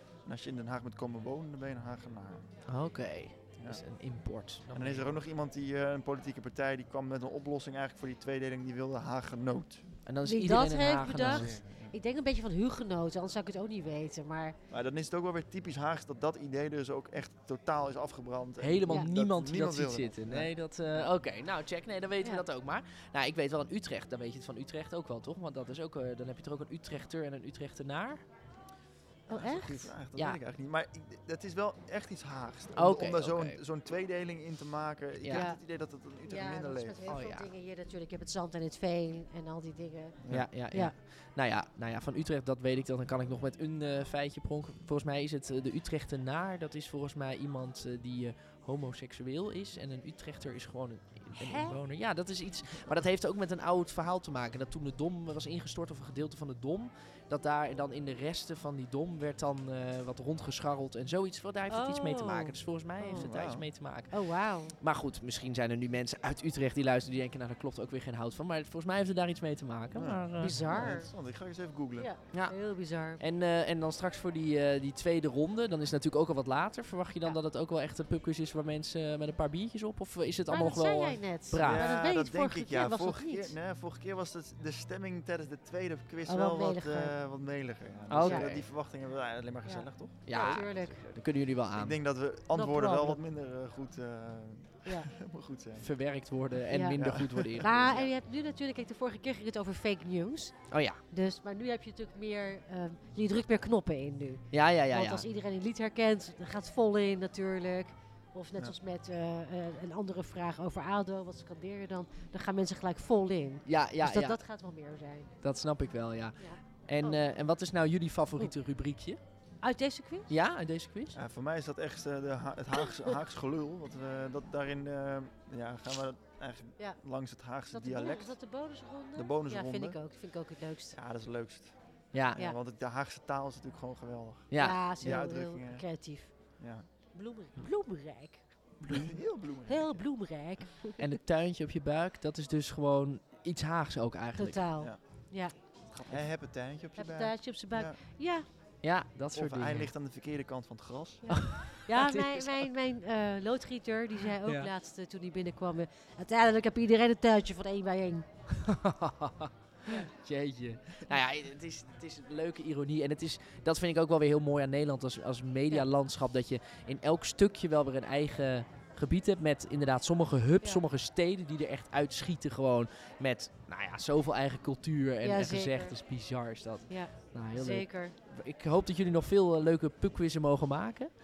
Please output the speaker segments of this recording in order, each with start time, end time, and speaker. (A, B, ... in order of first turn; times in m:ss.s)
0:00.2-0:02.5 A
0:02.7-0:05.2 B
0:04.7-0:09.9 A
0:10.0-0:11.6 B
0:10.2-0:14.6 C
0:11.2-0:12.0 A
0:14.7-0:21.1 A
0:18.6-0:28.2 B
0:29.3-0:29.9 C
0:29.3-0:37.1 A
0:32.8-0:33.6 B
0:35.2-0:35.5 B
0:35.3-0:35.6 C
0:36.2-0:40.9 C
0:37.1-0:37.5 B
0:40.2-0:40.5 A
0:40.3-1:10.6 B
0:51.4-0:51.8 C
1:01.7-1:03.3 C
1:02.2-1:02.6 A
1:03.1-1:03.7 A
1:04.1-1:04.8 C
1:09.9-1:12.1 A
1:10.4-1:11.1 C
1:12.0-1:13.2 C
1:13.2-1:21.9 B
1:20.5-1:23.5 C
1:21.6-1:30.7 A
1:26.2-1:27.1 C
1:28.1-1:28.7 B
1:29.6-1:31.1 C
1:30.2-1:32.0 B
1:31.7-1:35.9 A
1:32.5-1:33.2 C
1:35.8-1:37.7 B
1:36.7-1:37.0 C
1:36.9-1:38.1 A
1:37.6-1:40.6 C
1:40.7-1:41.0 B
1:41.1-1:55.3 C
1:44.5-1:45.2 B
1:53.6-1:54.4 B
1:55.4-1:59.2 B
1:56.4-1:57.2 C
1:59.6-2:00.3 C
2:00.3-2:01.2 B
2:01.1-2:08.4 A
2:02.8-2:03.2 C
2:07.7-2:11.0 C
2:09.1-2:10.0 A
2:10.9-2:11.7 A
2:12.1-2:12.4 B
2:12.3-2:15.8 A
2:14.5-2:14.8 B
2:14.5-2:16.3 C
2:16.6-2:16.9 A
2:17.1-2:18.4 C
2:18.8-2:20.0 A
2:19.6-2:21.0 C
2:21.0-2:24.6 B
2:24.4-2:25.5 C
2:25.9-2:28.0 A
2:27.0-2:28.4 C
2:28.8-2:29.9 B
2:29.3-2:31.3 A
2:31.2-2:38.3 C
2:31.3-2:32.7 B
2:34.4-2:34.7 B
2:38.6-3:01.1 B
2:55.2-2:56.0 C
2:56.9-2:58.2 C